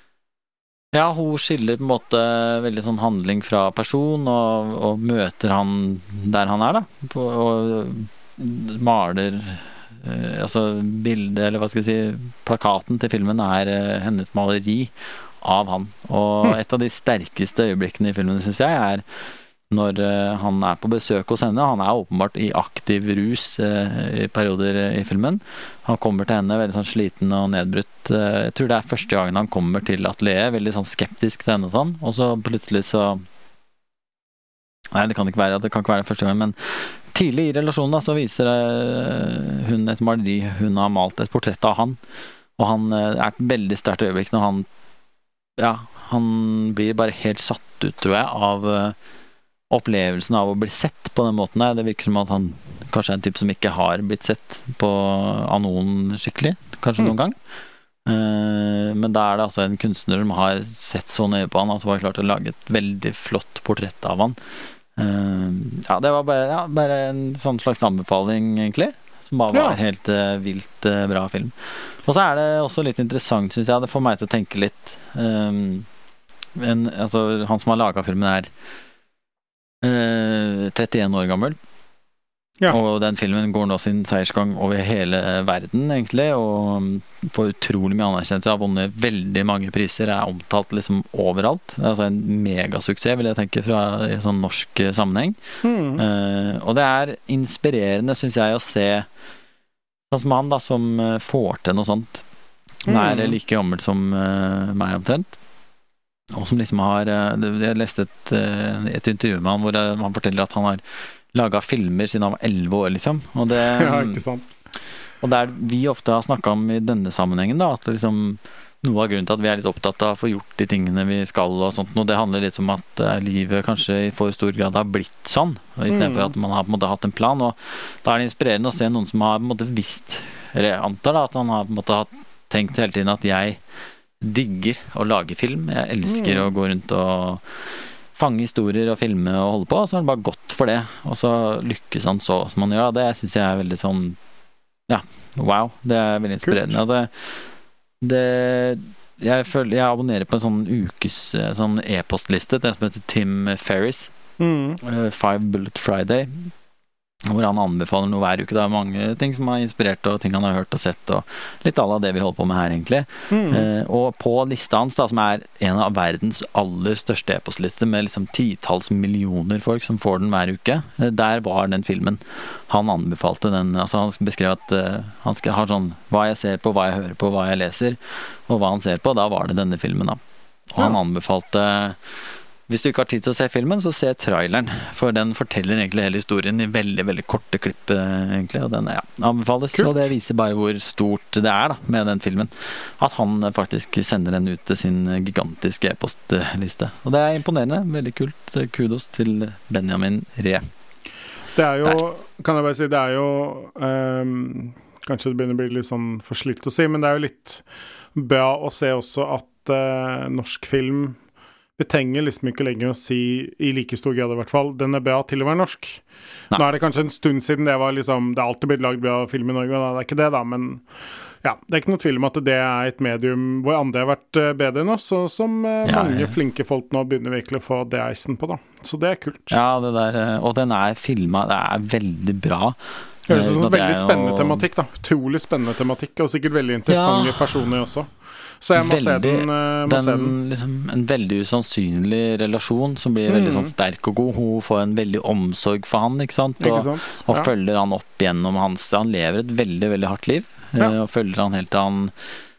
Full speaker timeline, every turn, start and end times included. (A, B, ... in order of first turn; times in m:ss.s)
0:00.9-0:19.0 A
0:19.7-0:33.2 A
0:34.9-0:42.0 A
0:42.6-0:44.7 A
0:45.6-0:49.0 A
0:49.7-0:57.4 A
0:58.0-1:04.4 A
1:05.0-1:15.9 A
1:09.5-1:09.8 B
1:16.6-1:18.5 A
1:19.8-1:21.6 A
1:22.7-1:35.4 A
1:35.6-1:36.0 B
1:36.0-1:39.1 A
1:40.1-1:42.2 A
1:42.8-1:43.4 B
1:42.8-1:45.4 A
1:46.3-1:50.8 A
1:51.3-1:54.2 A
1:53.6-1:54.5 B
1:55.2-2:13.6 A
2:05.9-2:06.3 B
2:14.2-2:17.4 A
2:16.0-2:16.5 B
2:18.1-2:24.2 A
2:24.9-2:27.4 A
2:26.4-2:26.8 B
2:28.0-2:34.1 A
2:34.4-2:34.8 B
2:34.8-2:36.5 A
2:37.2-3:02.0 A
2:43.3-2:43.7 B
3:02.7-3:20.6 A
3:09.7-3:10.0 B
3:21.5-3:27.6 B
3:28.1-3:31.2 B
3:31.8-3:40.8 B
3:41.4-3:49.6 B
3:45.8-3:46.3 A
3:49.5-3:52.8 A
3:53.3-4:00.4 B
3:53.3-3:54.6 A
3:56.9-3:57.7 A
3:58.8-4:12.1 A
4:03.3-4:03.7 B
4:06.6-4:07.5 B